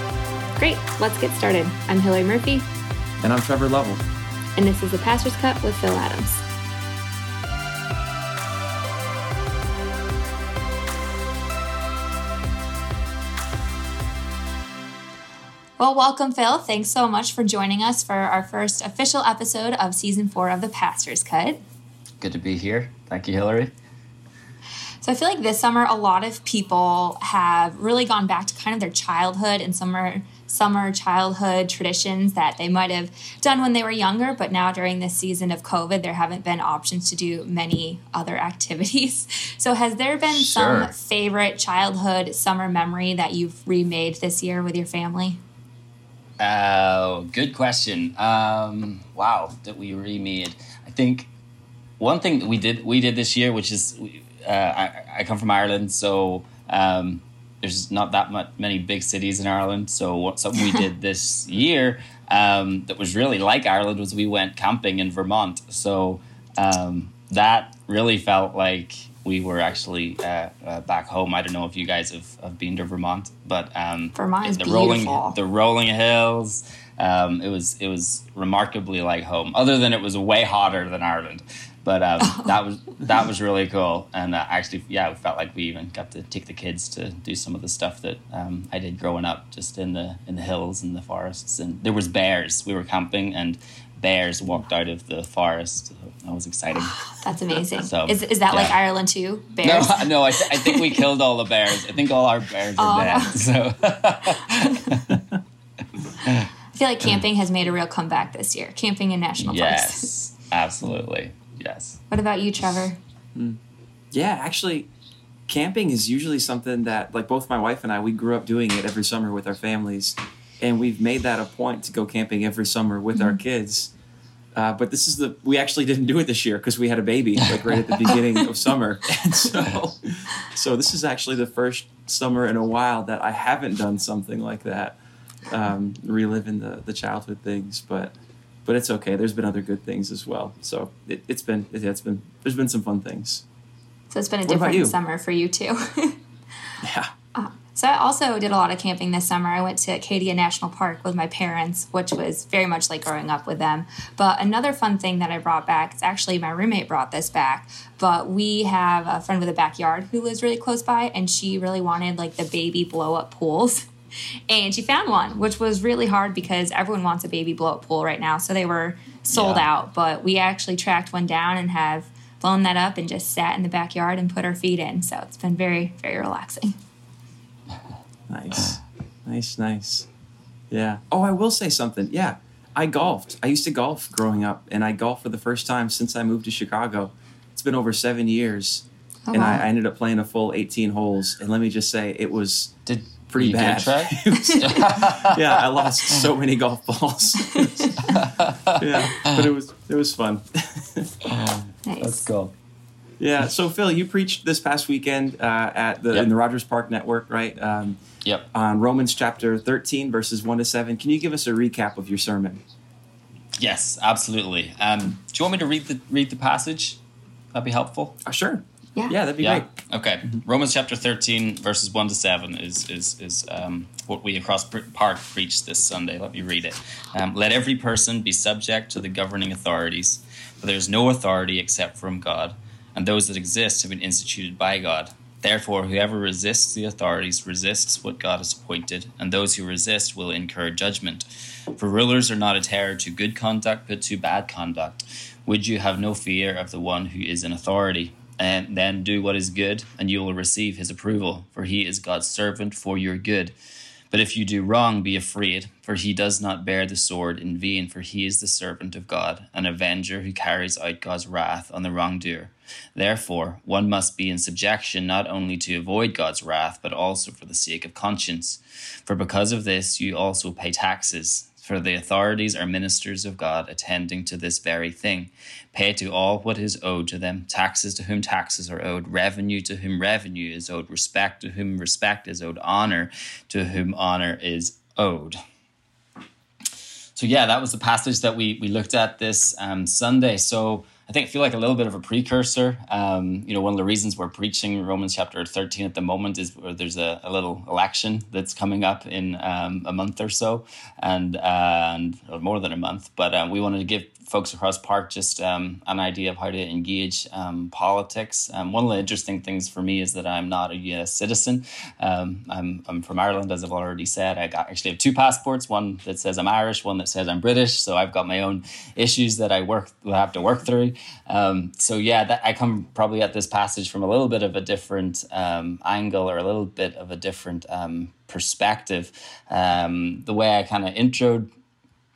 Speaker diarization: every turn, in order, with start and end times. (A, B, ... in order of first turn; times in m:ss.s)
0:00.6-0:02.7 A
0:03.2-0:04.0 B
0:04.6-0:06.4 A
0:15.8-0:21.6 A
0:22.2-0:23.7 C
0:25.0-0:45.4 A
0:40.3-0:40.9 C
0:46.4-0:51.3 C
0:52.0-1:38.8 C
1:14.2-1:15.4 A
1:22.2-1:22.5 A
1:37.0-1:41.0 A
1:39.6-1:45.2 C
1:42.8-1:43.4 A
1:44.3-1:45.0 A
1:46.2-1:46.5 C
1:46.7-1:50.1 A
1:49.4-1:52.0 C
1:52.1-1:53.0 A
1:53.4-1:53.6 B
1:54.1-1:54.9 B
1:55.5-2:03.9 B
2:04.6-2:23.4 B
2:24.1-2:26.2 A
2:24.5-2:25.0 B
2:26.8-2:27.1 B
2:27.4-2:43.9 A
2:44.5-2:56.8 A
2:49.3-2:49.6 C
2:58.3-3:00.1 B
3:00.7-3:12.7 B
3:09.3-3:09.6 A
3:12.9-3:16.2 C
3:13.3-3:17.9 B
3:17.4-3:18.1 A
3:18.0-3:19.5 C
3:18.8-3:21.1 B
3:21.3-3:22.5 C
3:21.9-3:22.2 A
3:23.2-3:28.0 B
3:28.5-3:32.6 B
3:33.6-3:37.0 C
3:37.5-3:38.2 C
3:38.2-3:39.7 B
3:39.4-4:13.5 C
4:14.1-4:45.4 C
4:47.2-5:31.5 C